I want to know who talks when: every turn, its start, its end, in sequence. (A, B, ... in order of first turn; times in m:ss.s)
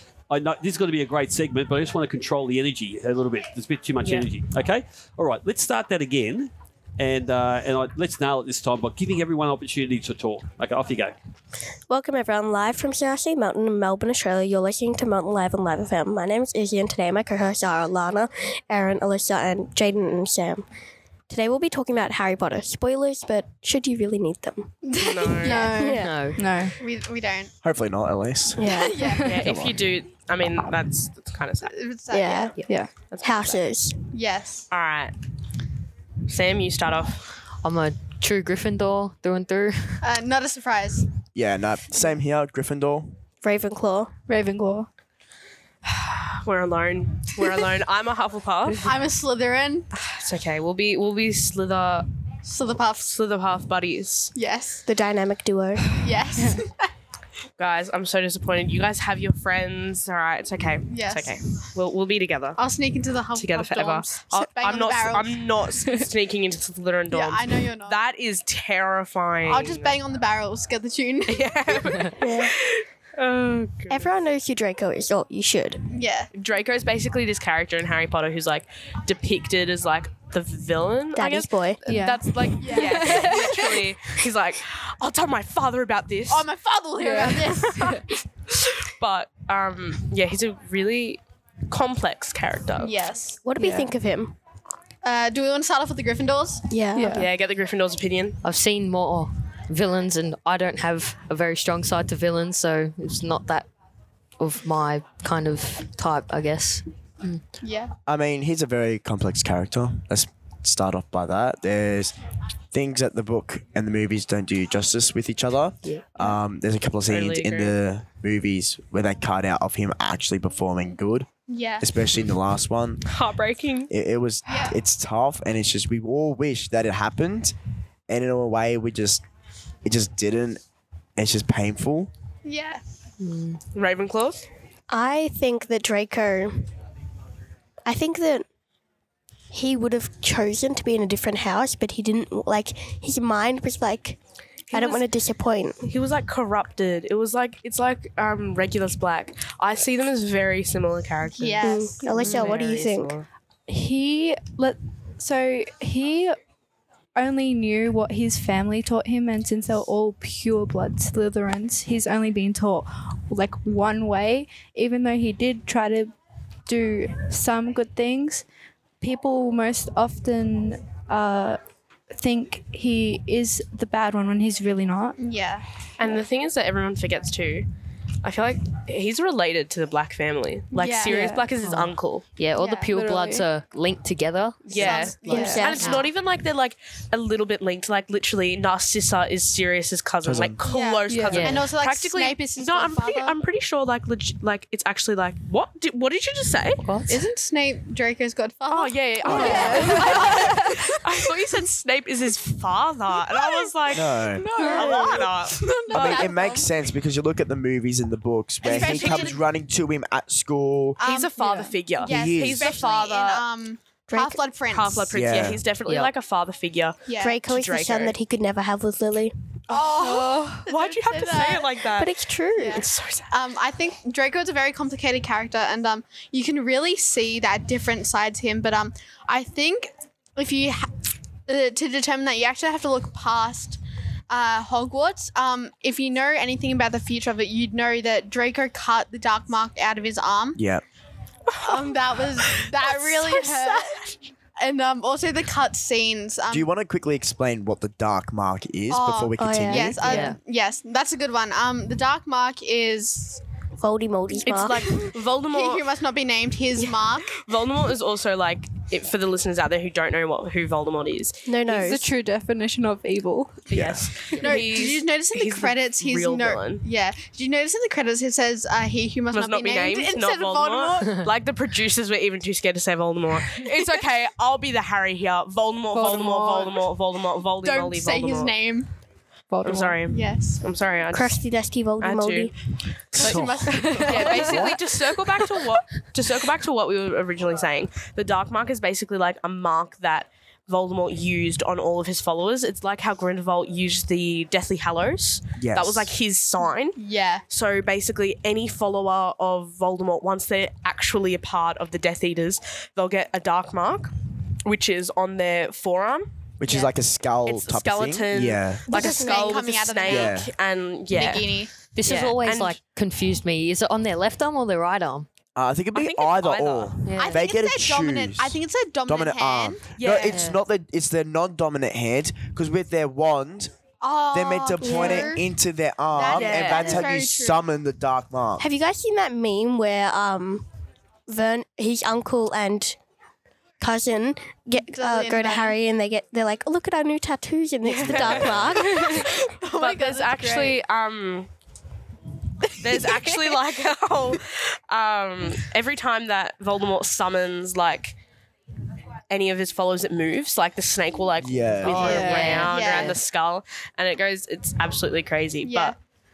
0:00.3-0:11.2 A
0:04.0-0:04.3 B
0:11.9-0:20.6 C
0:21.3-0:24.7 C
0:24.8-0:26.0 D
0:25.0-0:25.8 B
0:25.6-0:26.8 E
0:25.8-0:26.1 C
0:26.0-0:26.6 F
0:26.8-0:27.5 D
0:27.6-0:29.8 G
0:28.6-0:29.0 C
0:28.7-0:29.2 D
0:29.0-0:31.8 B
0:31.6-0:32.6 D
0:32.1-0:32.6 C
0:32.6-0:32.9 E
0:33.1-0:33.6 B
0:33.2-0:34.0 C
0:34.1-0:34.7 D
0:34.7-0:35.1 B
0:36.3-0:37.3 B
0:37.6-0:40.0 F
0:40.0-0:41.0 D
0:41.4-0:43.2 G
0:43.4-0:44.1 C
0:44.3-0:44.9 E
0:46.0-0:48.9 B
0:48.8-0:49.9 D
0:50.0-0:52.1 B
0:52.4-0:53.1 D
0:53.0-0:54.3 B
0:54.4-0:54.8 D
0:54.9-0:55.9 C
0:55.9-0:56.9 D
0:57.6-1:02.6 B
1:00.9-1:01.4 D
1:02.6-1:05.4 D
1:03.3-1:10.0 B
1:07.1-1:08.0 D
1:09.5-1:12.0 D
1:11.3-1:14.2 B
1:12.2-1:12.5 C
1:13.9-1:15.8 C
1:15.9-1:16.3 D
1:16.3-1:26.5 B
1:21.1-1:21.8 C
1:21.8-1:23.8 E
1:22.6-1:23.4 D
1:26.3-1:28.0 D
1:27.0-1:28.0 E
1:28.5-1:33.0 B
1:32.8-1:33.4 D
1:33.5-1:34.4 C
1:35.0-1:36.7 D
1:36.7-1:37.1 C
1:37.0-1:37.3 E
1:37.1-1:38.4 B
1:38.4-1:43.7 F
1:44.4-1:47.4 F
1:47.6-1:47.9 D
1:48.1-1:52.1 G
1:52.7-2:01.3 G
1:55.8-1:56.4 F
1:57.1-1:57.8 B
2:01.5-2:01.9 D
2:01.8-2:03.1 G
2:03.0-2:03.9 B
2:03.9-2:07.6 G
2:04.5-2:04.8 D
2:08.1-2:09.2 G
2:09.8-2:10.6 G
2:11.2-2:12.1 G
2:12.4-2:12.8 D
2:13.2-2:13.6 F
2:13.8-2:14.5 B
2:14.9-2:16.6 C
2:17.8-2:18.4 C
2:19.5-2:24.2 C
2:24.7-2:25.1 B
2:24.7-2:25.9 C
2:25.8-2:33.3 B
2:31.3-2:32.3 D
2:31.6-2:33.2 C
2:32.2-2:32.5 F
2:33.7-2:36.4 E
2:37.2-2:46.1 E
2:46.7-2:48.4 E
2:49.0-2:51.6 E
2:52.1-2:55.2 E
2:55.2-2:55.7 D
2:56.0-2:57.7 B
2:58.2-3:02.2 B
3:00.7-3:01.2 D
3:01.0-3:01.5 E
3:01.6-3:06.0 F
3:02.6-3:02.9 D
3:02.9-3:03.5 E
3:04.7-3:17.2 B
3:04.7-3:06.1 D
3:05.3-3:05.8 C
3:05.3-3:05.6 E
3:10.2-3:10.7 G
3:10.6-3:13.4 D
3:11.1-3:11.4 E
3:11.3-3:11.6 F
3:16.8-3:17.2 F
3:17.1-3:20.8 D
3:18.7-3:26.3 B
3:19.3-3:19.8 G
3:19.3-3:20.6 E
3:23.3-3:26.7 D
3:23.9-3:24.6 G
3:25.9-3:31.0 G
3:28.6-3:29.4 D
3:28.7-3:29.3 B
3:31.0-3:35.1 D
3:31.0-3:33.4 B
3:32.0-3:32.8 G
3:34.1-3:34.5 C
3:34.7-3:38.2 B
3:35.1-3:35.6 G
3:35.8-3:36.1 F
3:37.1-3:37.4 D
3:37.2-3:39.3 C
3:39.7-3:43.3 B
3:39.7-3:41.8 D
3:40.1-3:40.6 E
3:41.9-3:42.8 C
3:42.5-3:50.9 D
3:51.5-3:53.8 D
3:54.3-4:00.6 D
4:00.6-4:00.8 G
4:01.5-4:04.0 B
4:01.6-4:06.7 D
4:06.5-4:10.3 G
4:08.9-4:13.4 D
4:09.4-4:10.0 C
4:10.0-4:10.4 F
4:13.8-4:14.8 C
4:14.5-4:15.9 B
4:15.0-4:17.4 D
4:17.4-4:21.5 B
4:21.4-4:22.0 C
4:21.7-4:23.7 E
4:23.7-4:24.1 G
4:23.7-4:26.9 B
4:24.4-4:31.3 D
4:29.3-4:38.6 B
4:35.9-4:36.8 E
4:37.6-4:38.9 D
4:39.5-4:40.0 E
4:39.6-4:41.4 B
4:40.1-4:40.6 D
4:41.1-4:42.5 C
4:42.0-4:42.5 B
4:43.1-5:04.1 B
4:43.2-4:44.7 D
4:43.2-4:43.7 A
4:43.6-4:44.7 E
4:55.6-4:56.2 G
4:56.6-4:57.4 D
5:04.6-5:06.3 B
5:06.6-5:08.9 G
5:06.7-5:06.9 D
5:07.4-5:12.8 B
5:08.9-5:10.5 D
5:09.0-5:09.6 C
5:10.1-5:10.5 G
5:11.1-5:11.7 D
5:11.9-5:15.3 F
5:15.6-5:23.7 G
5:15.9-5:17.0 B
5:17.0-5:17.4 F
5:17.2-5:20.4 D
5:20.0-5:20.3 B
5:20.3-5:20.6 F
5:24.0-5:25.5 D
5:24.3-5:28.6 G
5:24.8-5:25.4 C
5:26.2-5:27.6 D
5:26.3-5:26.7 C
5:26.5-5:27.0 B
5:26.7-5:27.0 F
5:28.6-5:30.7 C
5:31.3-5:33.0 C
5:33.8-5:39.2 C
5:34.8-5:35.8 D
5:37.8-5:41.5 B
5:38.1-5:38.8 G
5:38.8-5:40.8 D
5:42.8-5:48.2 B
5:42.8-5:43.3 D
5:49.3-5:56.0 B
5:51.4-5:52.2 G
5:51.8-5:53.1 F
5:52.0-5:52.7 E
5:52.3-5:53.2 D
5:55.6-5:56.0 D